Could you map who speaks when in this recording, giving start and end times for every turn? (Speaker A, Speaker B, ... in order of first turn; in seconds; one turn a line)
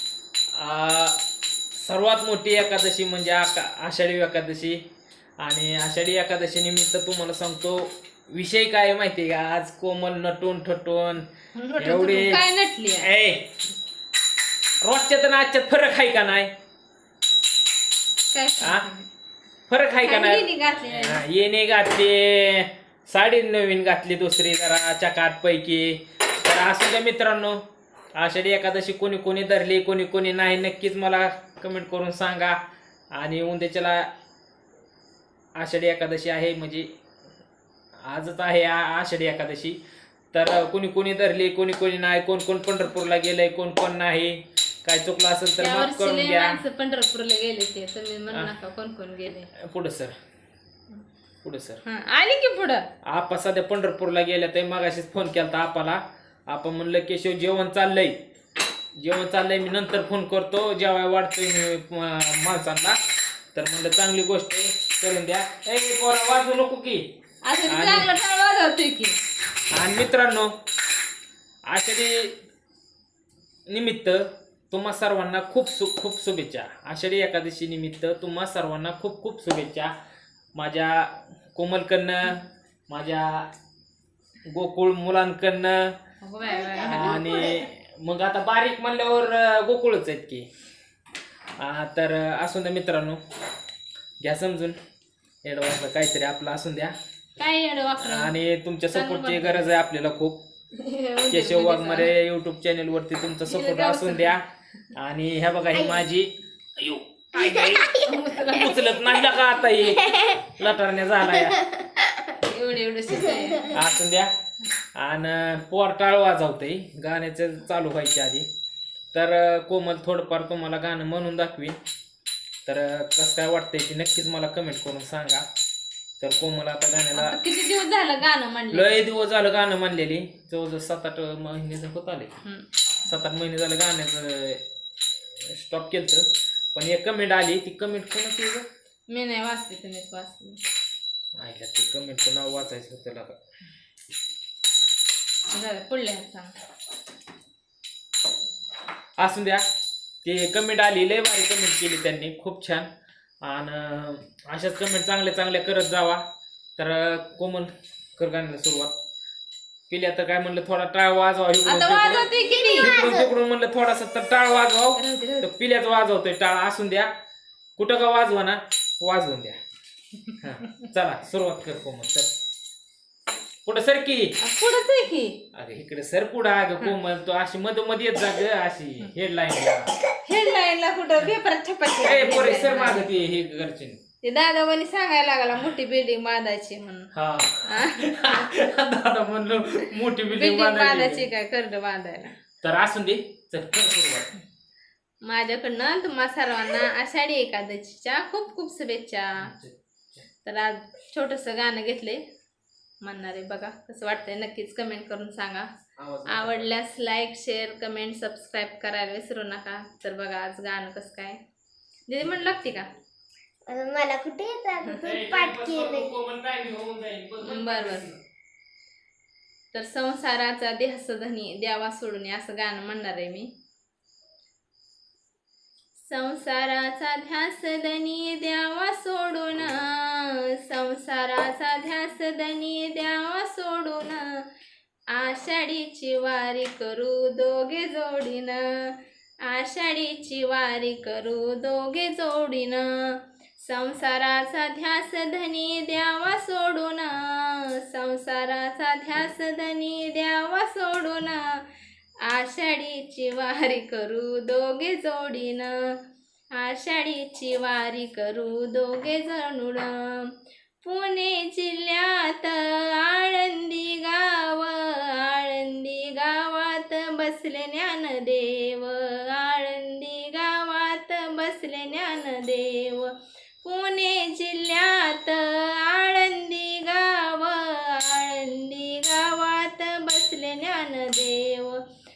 Speaker A: 0.6-1.2
Speaker A: 1.8-4.8
Speaker A: 5.4-12.4
Speaker B: 11.6-13.1
Speaker A: 13.0-13.6
Speaker A: 14.8-16.5
Speaker B: 18.3-19.1
Speaker A: 18.6-18.9
Speaker A: 19.7-32.6
Speaker B: 20.0-21.2
Speaker A: 33.1-34.1
Speaker A: 35.6-36.9
Speaker A: 38.1-39.8
Speaker A: 40.3-46.6
Speaker B: 45.6-49.5
Speaker A: 49.5-50.1
Speaker A: 51.4-51.8
Speaker B: 51.9-52.9
Speaker A: 53.0-58.2
Speaker A: 59.0-63.0
Speaker A: 63.5-67.1
Speaker B: 67.5-69.2
Speaker A: 67.7-68.1
Speaker A: 69.7-70.5
Speaker A: 71.7-72.4
Speaker A: 73.7-79.9
Speaker A: 80.5-83.5
Speaker A: 84.5-86.0
Speaker B: 86.2-87.4
Speaker C: 86.4-87.6
Speaker A: 86.8-90.5
Speaker A: 91.6-93.2
Speaker A: 94.2-94.8
Speaker A: 95.4-97.0
Speaker B: 97.4-98.3
Speaker A: 98.0-100.4
Speaker B: 98.9-99.7
Speaker B: 100.8-102.1
Speaker A: 101.3-111.7
Speaker B: 103.5-104.4
Speaker C: 107.3-108.1
Speaker B: 108.0-108.9
Speaker C: 109.8-110.4
Speaker C: 111.4-112.1
Speaker B: 112.4-113.8
Speaker C: 113.1-113.6
Speaker A: 113.7-114.3
Speaker A: 115.0-118.5
Speaker A: 119.1-121.8
Speaker A: 122.7-125.5
Speaker A: 126.2-127.4
Speaker B: 127.2-129.0
Speaker A: 128.7-132.4
Speaker A: 133.0-134.6
Speaker A: 135.4-138.7
Speaker B: 139.1-140.6
Speaker A: 141.4-143.4
Speaker B: 145.5-146.6
Speaker A: 149.2-149.6
Speaker A: 150.2-152.9
Speaker A: 153.4-156.2
Speaker A: 156.8-159.0
Speaker A: 159.9-167.1
Speaker B: 161.7-163.1
Speaker C: 162.3-163.3
Speaker B: 165.0-165.5
Speaker A: 167.8-169.6
Speaker A: 170.4-172.3
Speaker A: 173.7-174.4
Speaker B: 174.4-175.4
Speaker A: 175.5-179.9
Speaker B: 180.2-183.1
Speaker A: 182.0-184.0
Speaker B: 184.2-187.1
Speaker A: 187.1-191.3
Speaker B: 187.6-188.6
Speaker B: 190.3-192.3
Speaker A: 192.6-194.3
Speaker B: 195.2-199.5
Speaker A: 199.4-199.7
Speaker B: 200.4-202.2
Speaker B: 203.0-205.7
Speaker A: 206.0-206.7
Speaker B: 206.3-211.4
Speaker B: 212.1-212.9
Speaker C: 213.7-216.1
Speaker A: 214.9-218.2
Speaker B: 217.4-218.1
Speaker B: 219.7-223.5
Speaker B: 226.0-234.4
Speaker B: 235.1-242.9
Speaker B: 243.6-251.6
Speaker B: 252.3-255.8
Speaker B: 256.6-281.8